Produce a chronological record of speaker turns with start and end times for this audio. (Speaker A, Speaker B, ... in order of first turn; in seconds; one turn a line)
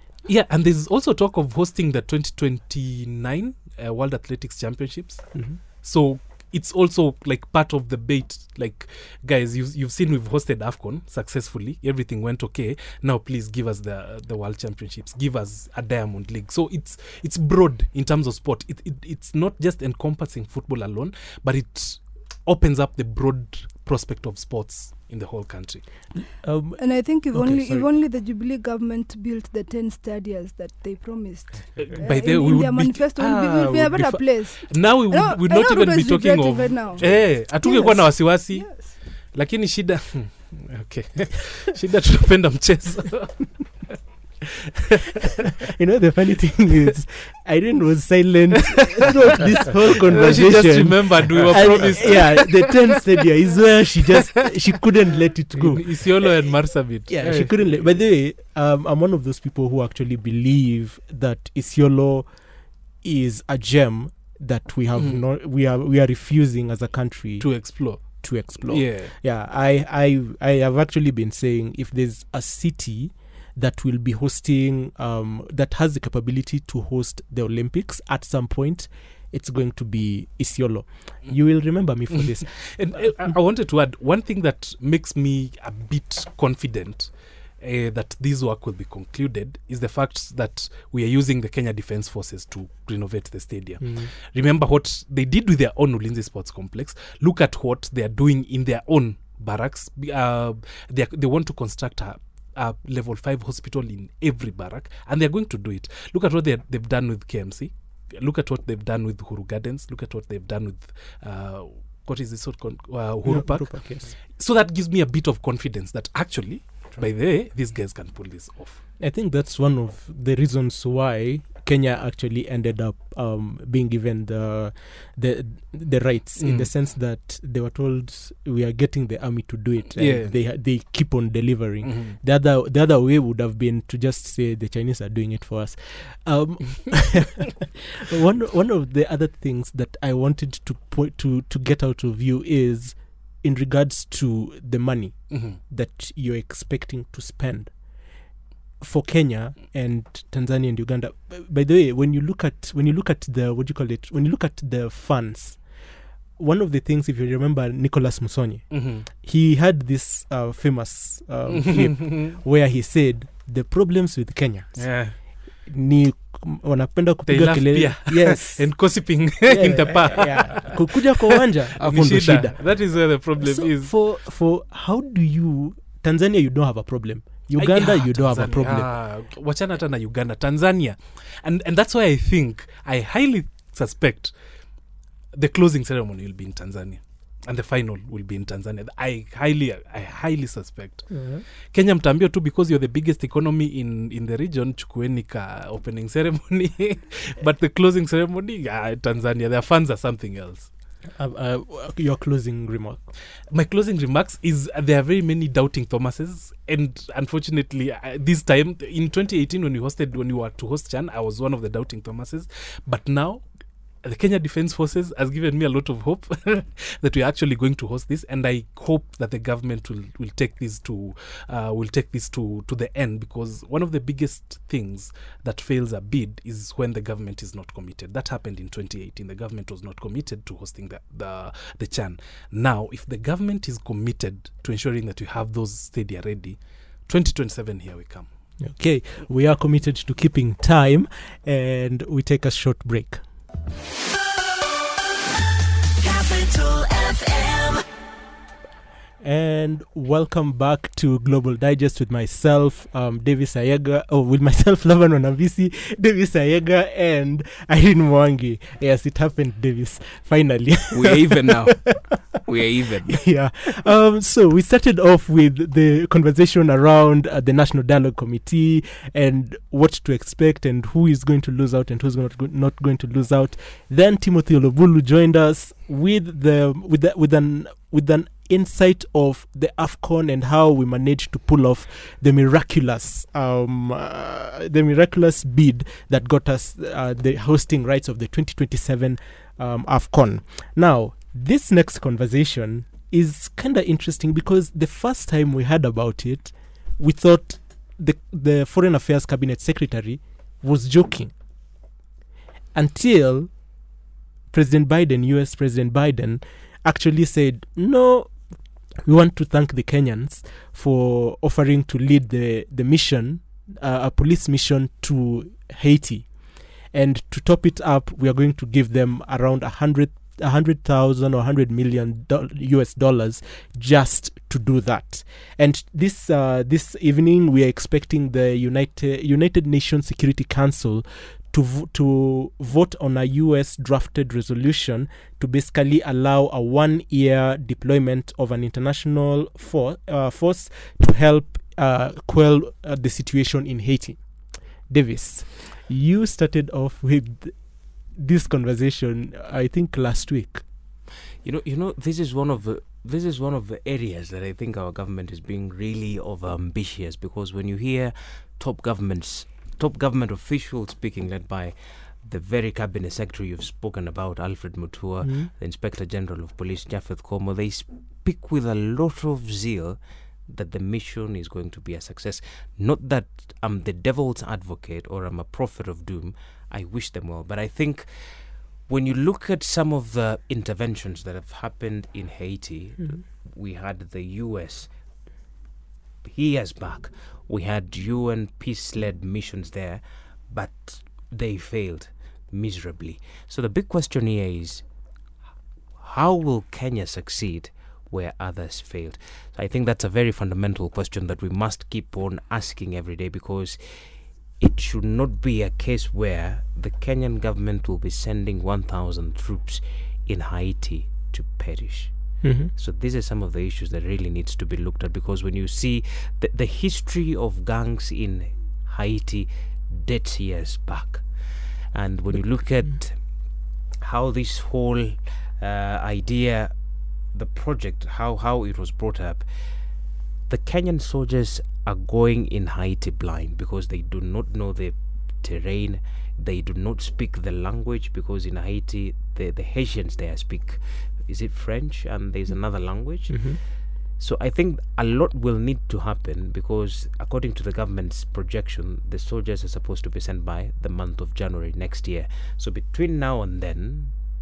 Speaker A: 0.2-26.2
Speaker B: 5.3-5.6
Speaker B: 26.1-27.9
Speaker C: 26.8-39.0
Speaker A: 31.7-44.0
Speaker B: 45.6-62.4
Speaker A: 50.1-53.0
Speaker A: 55.5-58.0
Speaker B: 63.0-83.3
Speaker A: 67.4-69.1
Speaker A: 82.2-118.8
Speaker B: 93.8-94.1
Speaker B: 113.2-114.1
Speaker B: 119.0-147.8
Speaker A: 126.4-126.7
Speaker A: 129.9-130.4
Speaker A: 131.8-132.2
Speaker A: 145.3-145.6
Speaker B: 148.8-155.7
Speaker B: 156.4-178.9
Speaker A: 158.7-159.1
Speaker A: 161.5-162.4
Speaker A: 164.7-165.3
Speaker A: 167.3-173.9
Speaker A: 177.5-184.7
Speaker A: 185.3-200.7
Speaker B: 191.1-191.4
Speaker B: 201.1-203.1
Speaker A: 203.5-213.4
Speaker A: 214.0-238.3
Speaker B: 238.6-243.3
Speaker D: 244.1-245.1
Speaker D: 246.0-247.8
Speaker B: 249.2-262.1
Speaker E: 260.9-263.2
Speaker B: 263.1-301.4
Speaker B: 302.7-303.8
Speaker B: 304.5-350.6
Speaker E: 351.4-384.9
Speaker B: 365.2-365.5
Speaker B: 383.0-383.2
Speaker E: 386.2-394.9
Speaker E: 395.9-454.1
Speaker B: 412.4-412.7
Speaker B: 443.3-443.6